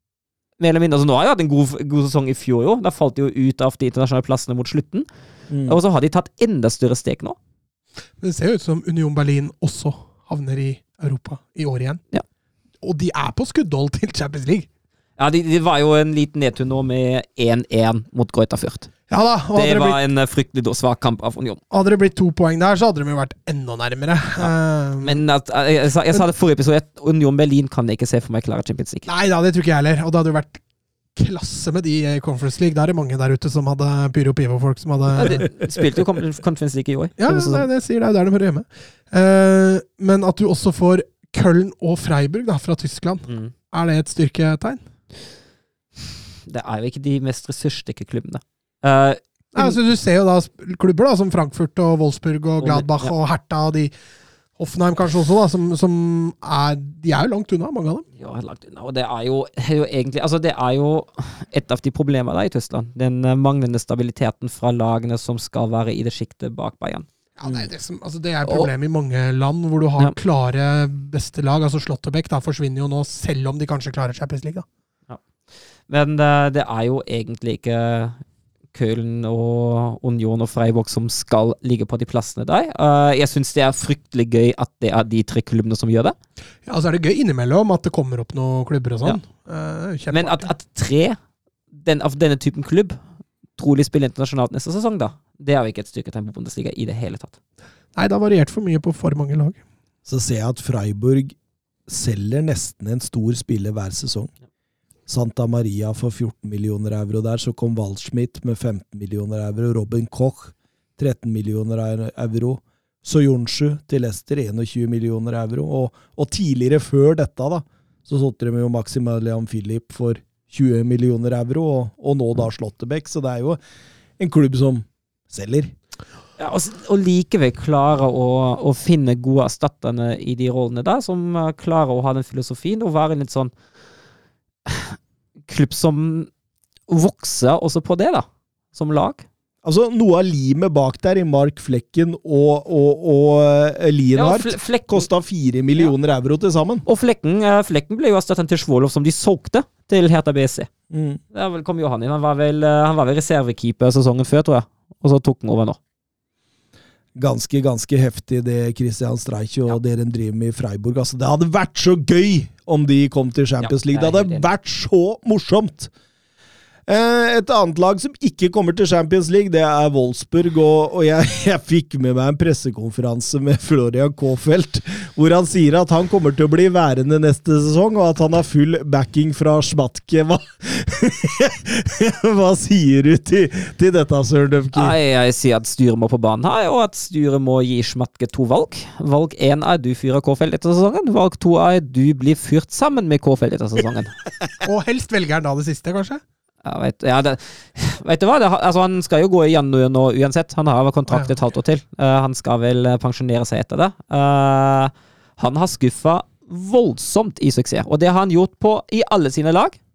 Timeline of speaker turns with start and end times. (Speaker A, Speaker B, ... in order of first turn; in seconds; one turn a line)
Speaker A: 0.6-5.1
Speaker B: 5.5-5.8
Speaker A: 5.7-7.4
Speaker C: 8.2-12.0
Speaker C: 12.8-14.7
Speaker A: 15.2-18.9
Speaker C: 19.1-20.0
Speaker A: 19.5-21.6
Speaker C: 21.7-25.2
Speaker A: 24.4-29.1
Speaker C: 29.1-30.6
Speaker C: 31.2-35.5
Speaker A: 35.1-37.7
Speaker C: 37.2-44.8
Speaker A: 43.3-43.5
Speaker A: 46.5-49.8
Speaker C: 49.5-53.9
Speaker A: 52.6-53.1
Speaker C: 54.6-58.0
Speaker A: 58.2-67.1
Speaker C: 67.4-74.7
Speaker B: 67.4-67.7
Speaker A: 75.9-78.2
Speaker A: 78.7-86.2
Speaker C: 86.7-90.5
Speaker A: 90.1-91.2
Speaker A: 91.8-93.0
Speaker A: 93.6-97.4
Speaker C: 98.0-99.6
Speaker B: 100.1-101.4
Speaker B: 101.9-104.3
Speaker B: 105.1-123.6
Speaker B: 124.2-125.7
Speaker A: 126.4-133.5
Speaker A: 134.7-135.0
Speaker A: 135.5-136.3
Speaker A: 136.9-139.2
Speaker B: 139.6-146.8
Speaker A: 144.2-145.1
Speaker A: 146.9-150.7
Speaker B: 150.9-151.2
Speaker A: 151.3-155.8
Speaker B: 157.2-165.9
Speaker A: 163.6-164.5
Speaker B: 166.9-184.9
Speaker A: 184.7-194.2
Speaker C: 194.6-196.2
Speaker A: 196.6-209.8
Speaker C: 201.1-201.3